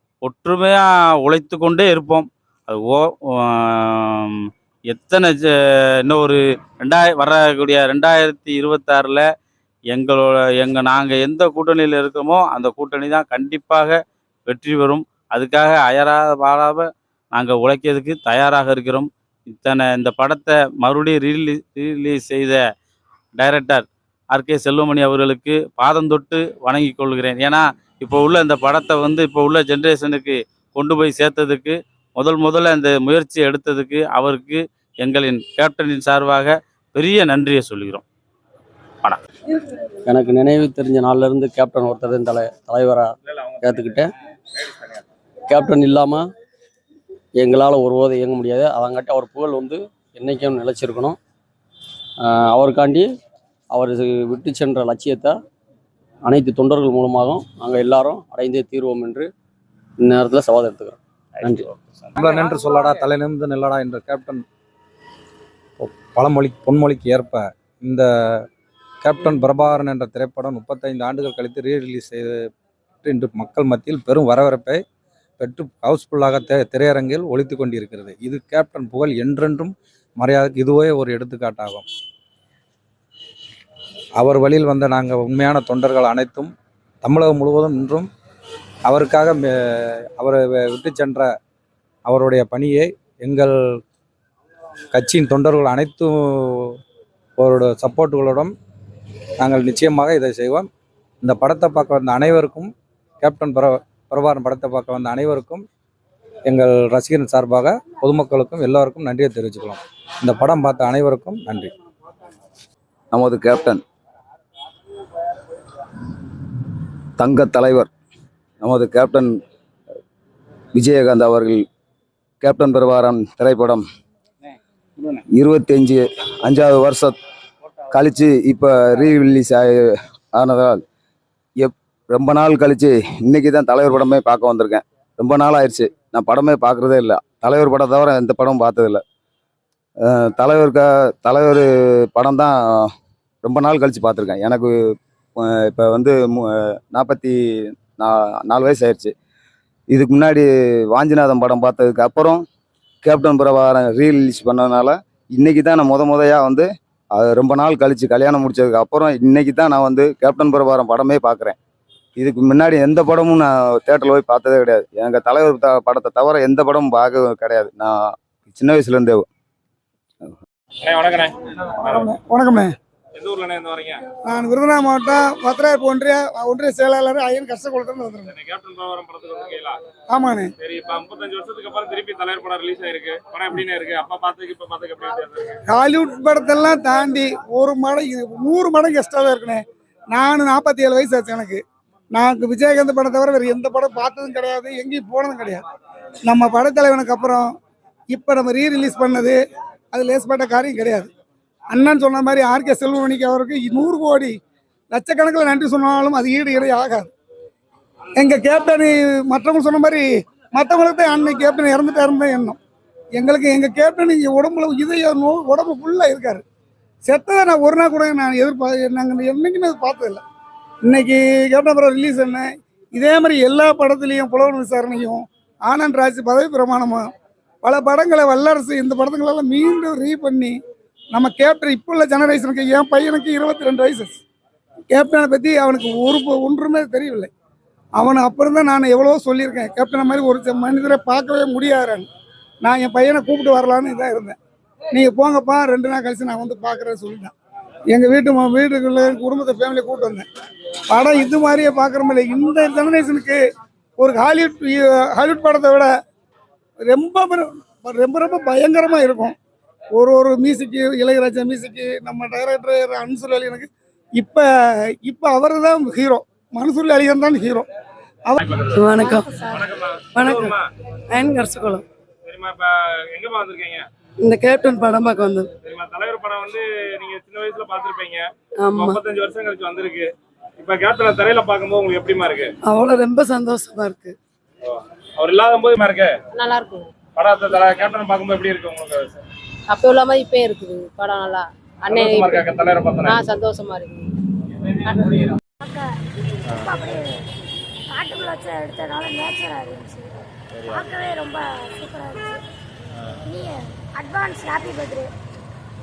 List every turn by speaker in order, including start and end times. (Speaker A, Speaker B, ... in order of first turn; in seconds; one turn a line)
Speaker A: 0.2-5.5
Speaker A: 6.0-9.2
Speaker A: 9.9-22.6
Speaker A: 23.4-38.0
Speaker B: 40.0-44.1
Speaker C: 43.2-44.0
Speaker C: 44.5-45.0
Speaker B: 45.5-46.2
Speaker B: 47.4-51.2
Speaker B: 52.2-53.1
Speaker B: 53.7-55.4
Speaker B: 56.2-59.3
Speaker B: 60.0-61.7
Speaker D: 62.1-64.4
Speaker D: 65.8-68.5
Speaker D: 69.0-72.4
Speaker D: 73.0-74.8
Speaker D: 75.4-81.8
Speaker D: 84.2-86.5
Speaker D: 87.0-88.1
Speaker D: 88.9-91.3
Speaker D: 92.0-93.8
Speaker D: 94.9-96.8
Speaker D: 97.4-98.5
Speaker D: 99.4-100.7
Speaker D: 101.2-105.7
Speaker D: 106.5-111.7
Speaker E: 113.1-113.8
Speaker E: 117.2-117.9
Speaker E: 118.6-119.3
Speaker E: 120.7-121.6
Speaker E: 122.4-123.8
Speaker E: 125.3-127.1
Speaker E: 127.9-130.8
Speaker E: 131.6-139.0
Speaker E: 140.0-142.9
Speaker E: 143.4-144.7
Speaker E: 145.4-147.4
Speaker E: 148.0-149.1
Speaker E: 149.9-152.4
Speaker E: 153.0-161.6
Speaker E: 162.2-169.2
Speaker C: 170.8-172.1
Speaker F: 171.9-172.7
Speaker C: 173.2-174.0
Speaker F: 174.2-178.3
Speaker C: 178.2-179.8
Speaker F: 180.1-180.5
Speaker C: 180.6-185.6
Speaker F: 185.7-189.6
Speaker F: 190.1-191.6
Speaker F: 192.1-195.6
Speaker F: 196.2-197.5
Speaker F: 198.1-199.4
Speaker F: 199.9-201.1
Speaker F: 201.7-204.4
Speaker F: 204.9-207.1
Speaker F: 208.2-212.6
Speaker F: 213.2-216.4
Speaker F: 217.0-220.2
Speaker F: 220.9-227.1
Speaker F: 227.6-230.5
Speaker F: 231.1-234.2
Speaker F: 234.9-237.3
Speaker F: 238.0-242.1
Speaker F: 242.6-244.3
Speaker F: 244.9-247.3
Speaker F: 247.9-250.2
Speaker F: 250.9-253.4
Speaker F: 254.0-255.9
Speaker F: 256.9-259.4
Speaker F: 259.9-264.5
Speaker F: 265.0-267.6
Speaker C: 268.4-270.6
Speaker G: 268.7-269.5
Speaker G: 270.1-270.6
Speaker G: 271.1-271.8
Speaker C: 272.2-273.9
Speaker G: 274.2-275.5
Speaker C: 275.6-282.5
Speaker G: 278.6-279.0
Speaker G: 282.6-284.1
Speaker C: 284.6-286.2
Speaker H: 286.4-286.8
Speaker C: 287.1-289.2
Speaker H: 289.7-292.4
Speaker C: 291.9-293.2
Speaker H: 293.1-293.9
Speaker C: 294.6-295.4
Speaker I: 295.6-297.2
Speaker I: 297.9-302.4
Speaker I: 303.2-305.1